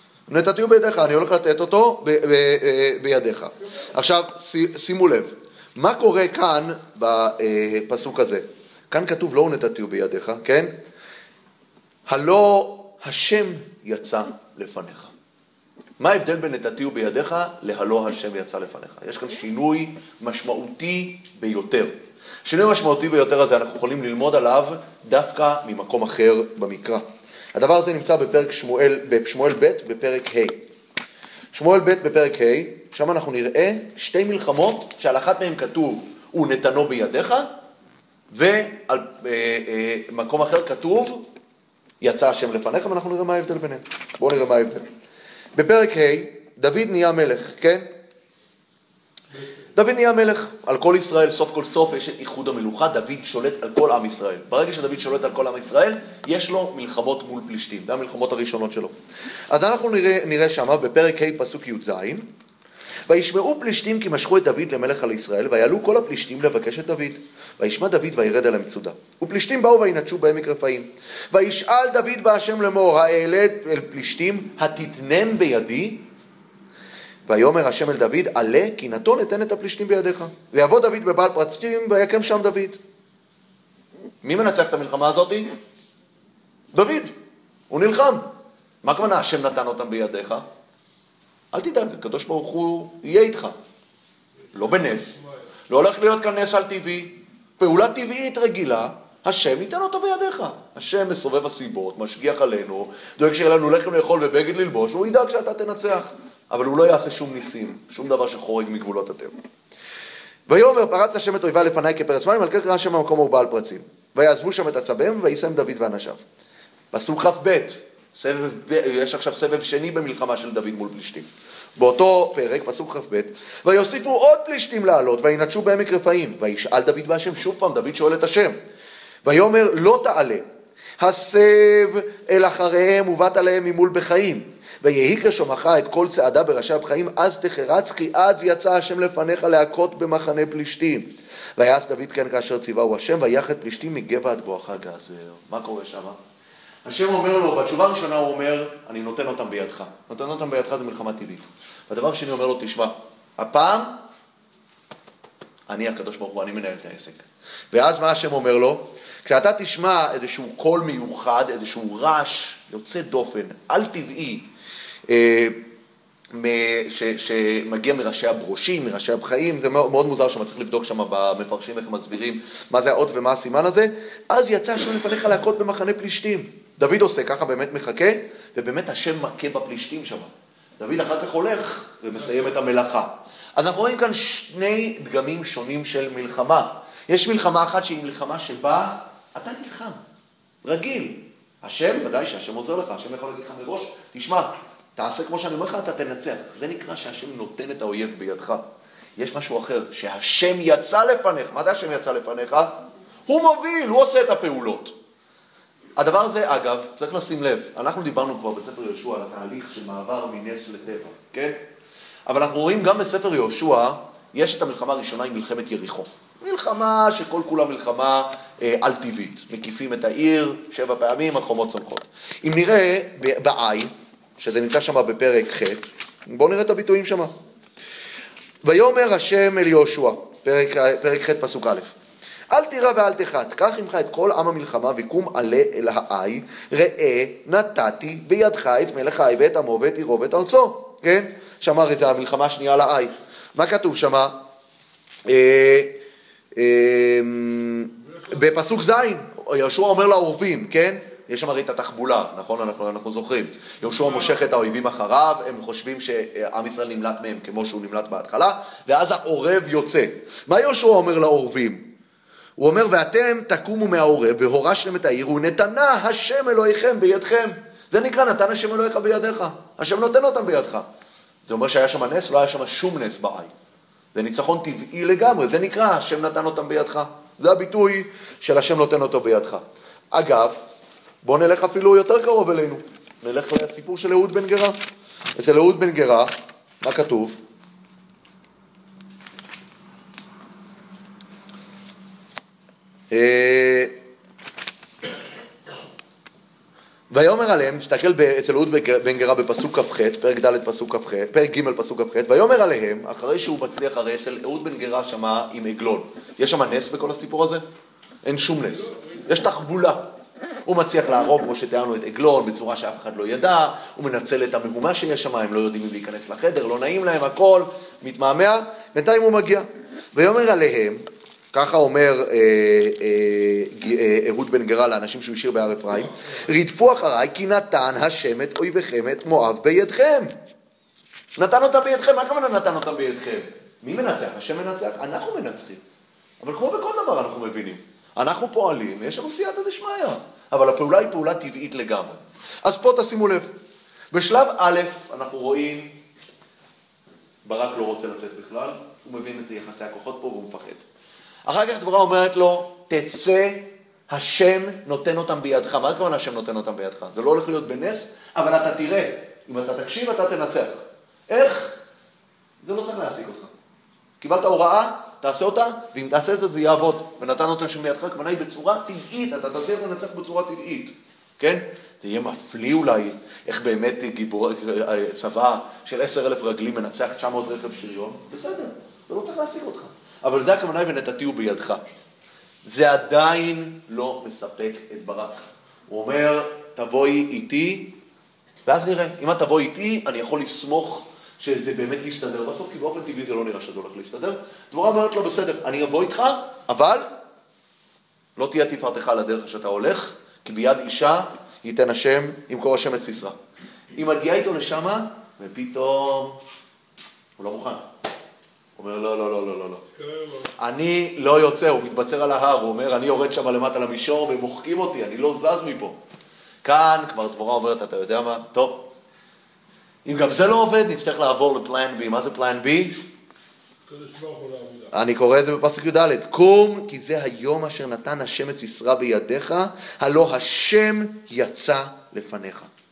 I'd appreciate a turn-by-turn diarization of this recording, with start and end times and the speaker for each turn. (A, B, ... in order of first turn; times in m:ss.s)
0:00.3-0:10.7 A
0:12.1-0:15.1 A
0:16.0-0:27.0 A
0:27.6-0:30.6 A
0:31.5-0:37.5 A
0:38.3-0:41.3 A
0:42.0-0:44.9 A
0:45.6-0:47.9 A
0:49.3-0:49.6 B
0:49.7-0:58.9 A
0:59.5-1:02.3 A
1:03.1-1:16.0 A
1:17.3-1:22.8 A
1:24.2-1:25.5 A
1:26.7-1:27.1 A
1:27.7-1:28.3 A
1:28.8-1:30.4 A
1:31.5-1:33.6 A
1:34.4-1:35.5 B
1:34.5-1:35.2 A
1:35.7-1:49.3 A
1:50.5-1:56.2 A
1:56.9-2:08.6 A
2:09.2-2:10.4 A
2:11.0-2:26.2 A
2:26.8-2:34.0 A
2:35.7-2:44.5 A
2:45.1-2:45.6 A
2:46.3-3:10.0 A
3:02.2-3:02.5 B
3:10.6-3:18.6 A
3:19.2-3:24.9 A
3:26.0-3:31.6 A
3:32.3-3:47.3 A
3:48.6-3:51.9 A
3:52.5-4:04.4 A
4:05.3-4:06.0 A
4:06.6-4:21.8 A
4:08.0-4:08.6 B
4:13.8-4:14.5 B
4:22.6-4:30.9 A
4:31.5-4:33.5 A
4:34.1-4:40.6 A
4:41.2-4:44.8 A
4:45.4-4:46.3 A
4:46.8-4:47.4 A
4:53.1-4:53.9 A
4:57.1-5:07.6 A
5:08.2-5:10.1 A
5:08.6-5:09.5 B
5:10.7-5:30.3 A
5:25.9-5:26.4 B
5:31.4-5:35.8 A
5:36.4-5:43.5 A
5:44.1-5:46.0 A
5:47.4-5:50.8 A
5:51.5-6:01.8 A
6:02.6-6:03.5 A
6:04.2-6:21.8 A
6:22.6-6:27.9 A
6:28.7-6:37.1 A
6:38.4-6:43.4 A
6:43.9-6:46.4 A
6:47.4-6:47.9 A
6:48.8-6:49.8 A
6:50.0-6:50.5 B
6:50.6-6:56.0 A
6:56.6-6:58.9 A
7:00.0-7:03.0 A
7:03.9-7:04.9 B
7:04.9-7:12.7 A